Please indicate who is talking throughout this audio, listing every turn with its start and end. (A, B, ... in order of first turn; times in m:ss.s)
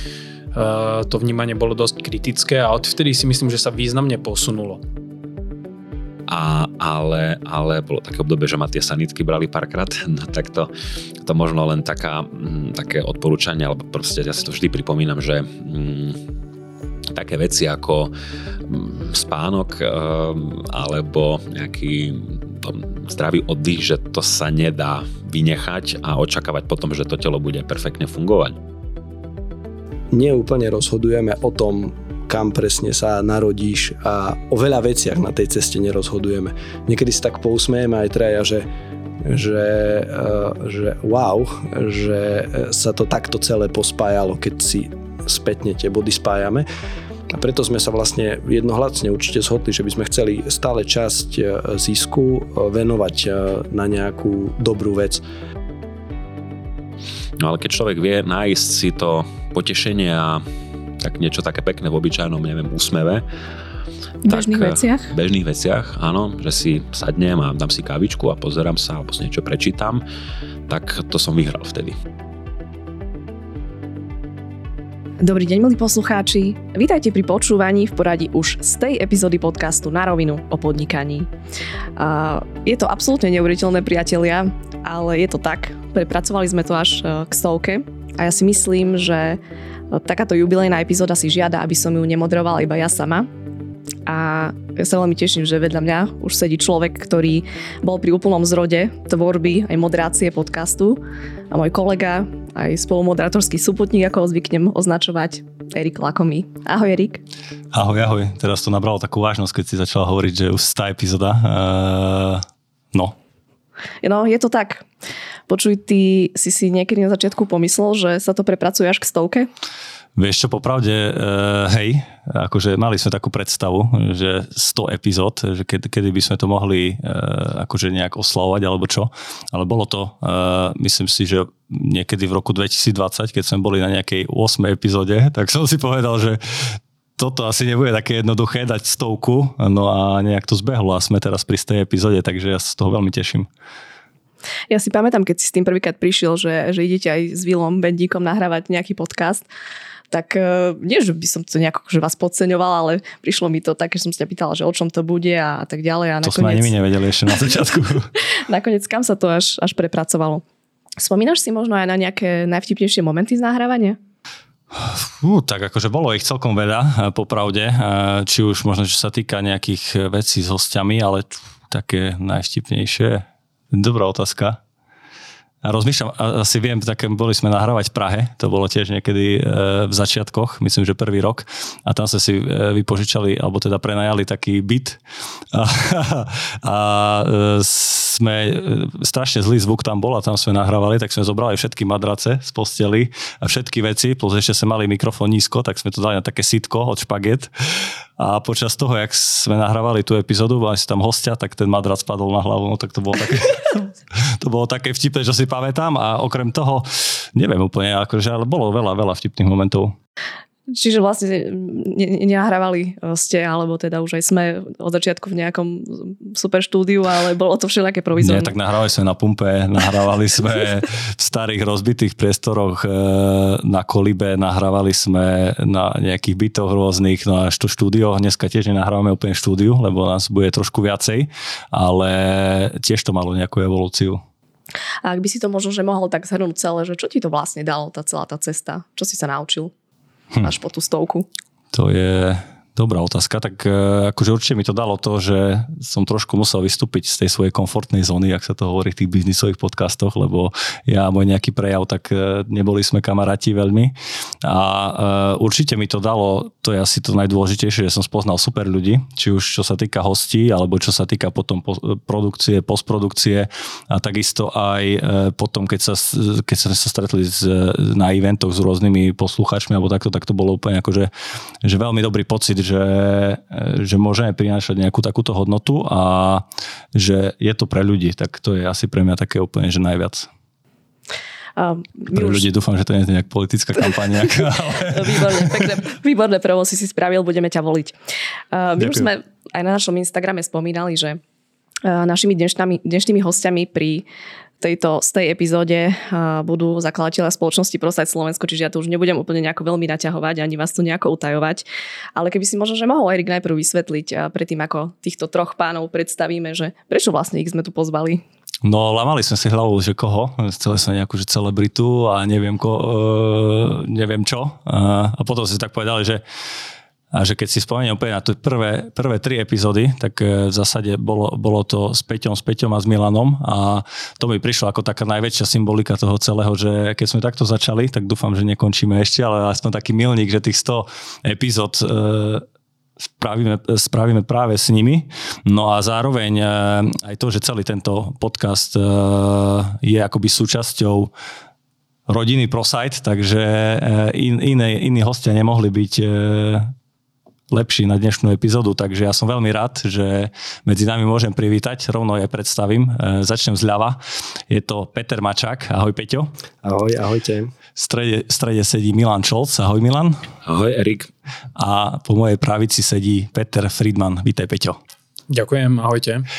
0:00.5-0:04.8 A
0:06.3-0:10.7 B
0:11.2-0:16.2 B
0:17.1-0:18.1 B
0:18.6-0:28.6 B
0:30.1-0:38.6 C
0:39.2-0:46.7 C
0:47.3-0:55.2 C
0:57.4-1:00.4 B
1:01.0-1:03.2 B
1:04.2-1:05.1 D
1:04.3-1:10.0 B
1:10.7-1:12.0 B
1:15.2-1:21.3 D
1:22.0-1:29.4 D
1:29.9-1:33.3 D
1:34.0-1:47.2 D
1:47.7-1:53.2 E
1:54.0-1:54.9 D
1:55.5-1:59.5 D
2:00.2-2:23.5 E
2:24.7-2:29.4 D
2:30.1-2:36.7 D
2:36.2-2:38.1 E
2:38.2-2:40.4 D
2:41.0-2:44.0 D
2:44.8-2:54.6 E
2:55.6-3:05.0 E
3:05.5-3:30.0 E
3:30.7-3:38.5 D
3:38.2-3:54.2 E
3:55.0-3:59.7 D
4:00.4-4:01.3 D
4:01.7-4:31.1 E
4:31.6-4:36.4 E
4:36.9-4:40.3 E
4:41.6-4:42.4 D
4:42.1-4:45.6 E
4:44.8-4:47.9 D
4:48.5-4:51.2 D
4:48.8-4:49.1 E
4:51.8-4:54.0 D
4:54.6-5:01.6 D
5:02.2-5:08.2 D
5:08.6-5:16.2 E
5:17.1-5:32.4 E
5:33.2-5:41.1 E
5:42.1-5:46.7 E
5:47.5-5:54.0 E
5:54.5-5:56.3 E
5:56.6-5:57.5 C
5:57.8-6:00.2 E
6:00.4-6:01.1 B
6:01.6-6:04.8 E
6:05.3-6:06.2 A